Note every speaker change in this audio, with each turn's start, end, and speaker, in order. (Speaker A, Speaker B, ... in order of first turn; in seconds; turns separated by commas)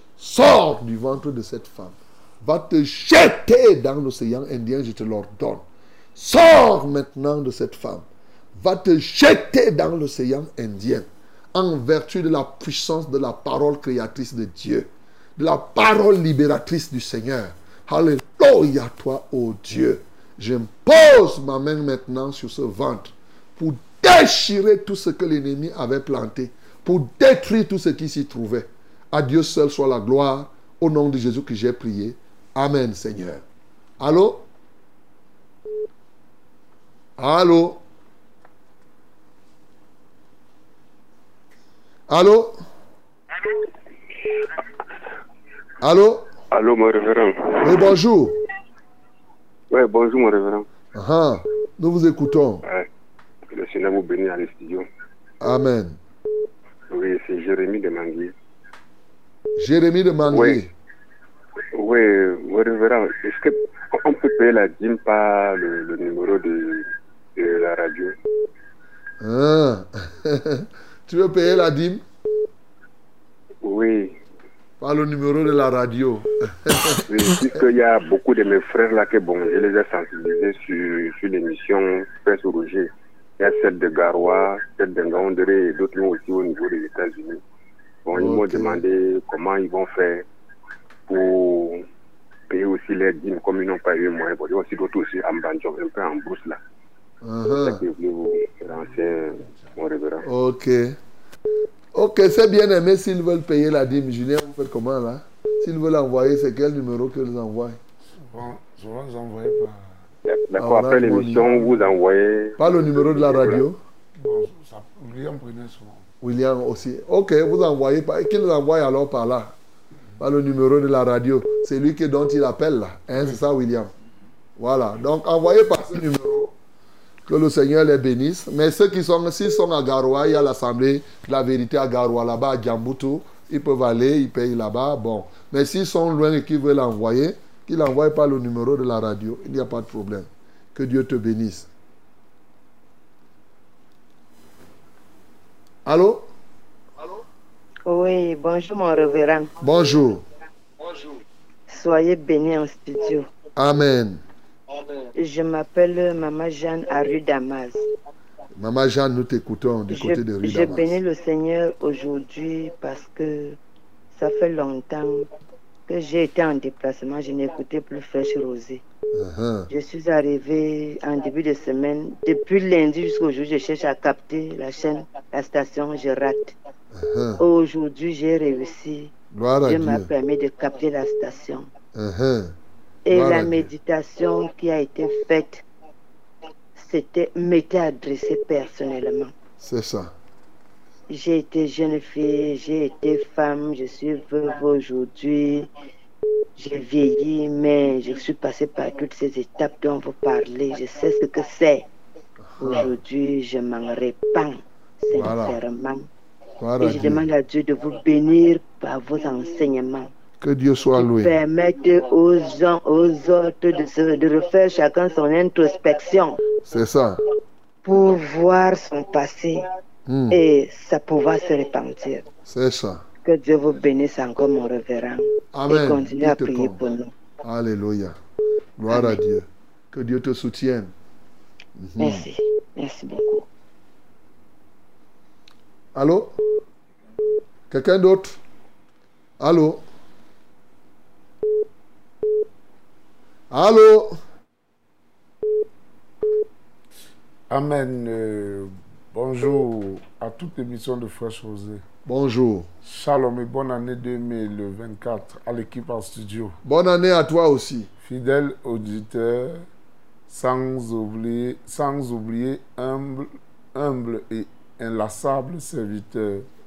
Speaker A: 0.2-5.6, Speaker A: 6.2-8.0, Speaker A: 8.6-33.4, Speaker A: 34.0-34.5, Speaker A: 37.2-37.8, Speaker A: 42.1-42.6, Speaker A: 45.8-46.3, Speaker B: 46.5-48.0, Speaker A: 47.6-48.3, Speaker B: 49.7-50.7, Speaker A: 50.9-52.6, Speaker B: 53.5-54.9, Speaker A: 55.4-56.0, Speaker B: 56.9-58.3, Speaker A: 59.6-60.7, Speaker B: 60.3-60.6, Speaker B: 61.7-68.1, Speaker A: 69.2-72.0, Speaker B: 73.6-74.2, Speaker A: 74.8-77.0, Speaker B: 77.1-87.4, Speaker B: 88.0-90.2, Speaker A: 88.1-88.8, Speaker B: 91.1-91.8, Speaker B: 92.5-96.6, Speaker A: 97.2-97.8, Speaker B: 97.6-100.2, Speaker A: 100.2-101.0, Speaker A: 101.9-107.8, Speaker C: 108.3-110.0, Speaker B: 110.3-113.6, Speaker A: 110.6-111.8, Speaker A: 112.6-113.8, Speaker C: 114.2-116.0, Speaker A: 116.2-119.5, Speaker A: 120.2-123.9, Speaker A: 124.6-126.5, Speaker A: 127.2-141.7, Speaker A: 145.8-146.3, Speaker D: 147.8-149.5, Speaker A: 149.6-150.2, Speaker D: 151.7-153.3, Speaker A: 153.6-154.2, Speaker D: 155.1-157.8, Speaker A: 158.6-160.9, Speaker D: 159.9-163.6, Speaker D: 164.1-165.2, Speaker D: 165.9-168.8, Speaker A: 169.1-169.7, Speaker D: 169.7-176.5, Speaker A: 176.9-177.4, Speaker D: 177.4-179.1, Speaker A: 179.3-180.1, Speaker D: 179.6-181.7, Speaker A: 181.9-182.5, Speaker D: 183.0-185.6, Speaker A: 183.1-183.7, Speaker D: 186.8-189.3, Speaker A: 189.6-190.1, Speaker D: 191.1-195.7, Speaker D: 196.6-201.9, Speaker A: 202.6-202.9, Speaker D: 202.6-206.1, Speaker A: 205.1-205.6, Speaker A: 206.6-207.2, Speaker D: 206.8-210.1, Speaker A: 210.4-211.3, Speaker D: 210.9-216.4, Speaker A: 216.7-217.2, Speaker D: 217.8-219.6, Speaker A: 220.1-220.4, Speaker D: 220.3-222.2, Speaker A: 222.5-223.0, Speaker D: 223.2-227.1, Speaker A: 225.5-226.8, Speaker A: 227.4-228.2, Speaker A: 228.8-230.9, Speaker D: 228.9-229.2, Speaker A: 231.8-232.2, Speaker D: 232.0-233.4, Speaker A: 235.9-236.4, Speaker A: 237.7-238.4, Speaker A: 239.4-239.8, Speaker A: 243.5-244.2, Speaker C: 247.5-251.8, Speaker A: 252.1-252.7, Speaker C: 252.8-256.6, Speaker A: 256.6-257.9, Speaker C: 258.0-259.7, Speaker C: 260.3-266.5